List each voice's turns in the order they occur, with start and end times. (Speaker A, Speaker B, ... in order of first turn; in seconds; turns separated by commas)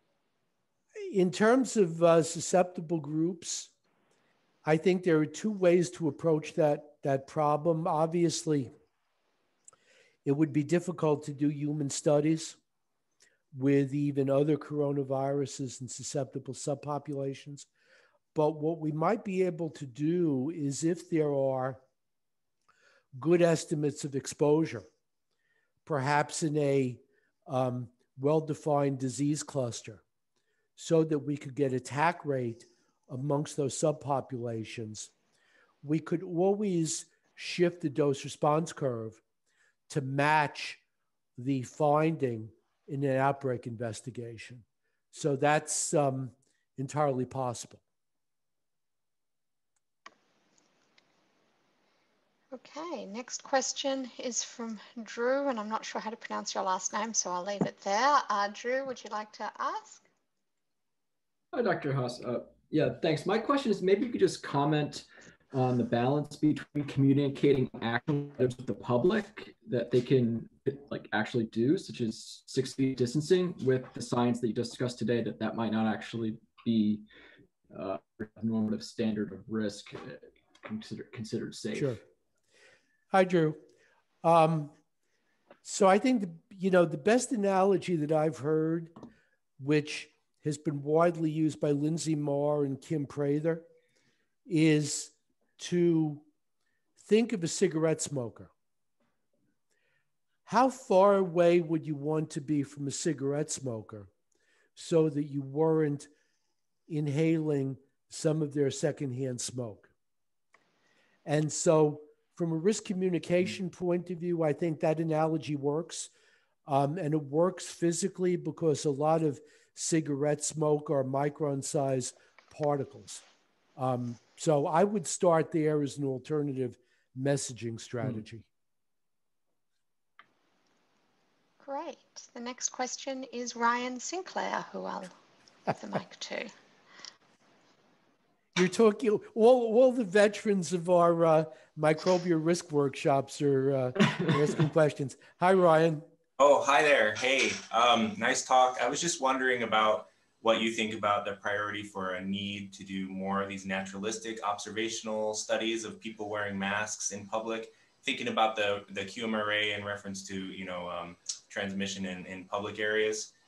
Speaker A: 1.0-3.7, Speaker A: 4.7-8.7, Speaker A: 10.2-12.6, Speaker A: 13.5-17.7, Speaker A: 18.3-21.8, Speaker A: 23.1-24.9, Speaker A: 25.8-30.0, Speaker A: 30.8-35.1, Speaker A: 35.8-39.2, Speaker A: 39.9-40.8, Speaker A: 41.4-47.8, Speaker B: 52.5-60.0, Speaker C: 61.5-77.0, Speaker C: 77.7-82.0, Speaker A: 81.7-82.0, Speaker A: 83.1-83.6, Speaker A: 84.2-84.7, Speaker A: 85.6-88.9, Speaker A: 89.6-93.7, Speaker A: 94.5-96.2, Speaker A: 97.0-98.5, Speaker A: 100.5-104.1, Speaker A: 104.8-106.1, Speaker A: 106.9-109.9, Speaker A: 111.2-116.1, Speaker A: 116.7-123.2, Speaker A: 123.8-128.4, Speaker B: 131.6-135.1, Speaker B: 135.7-136.5, Speaker A: 138.5-146.1, Speaker D: 146.4-163.3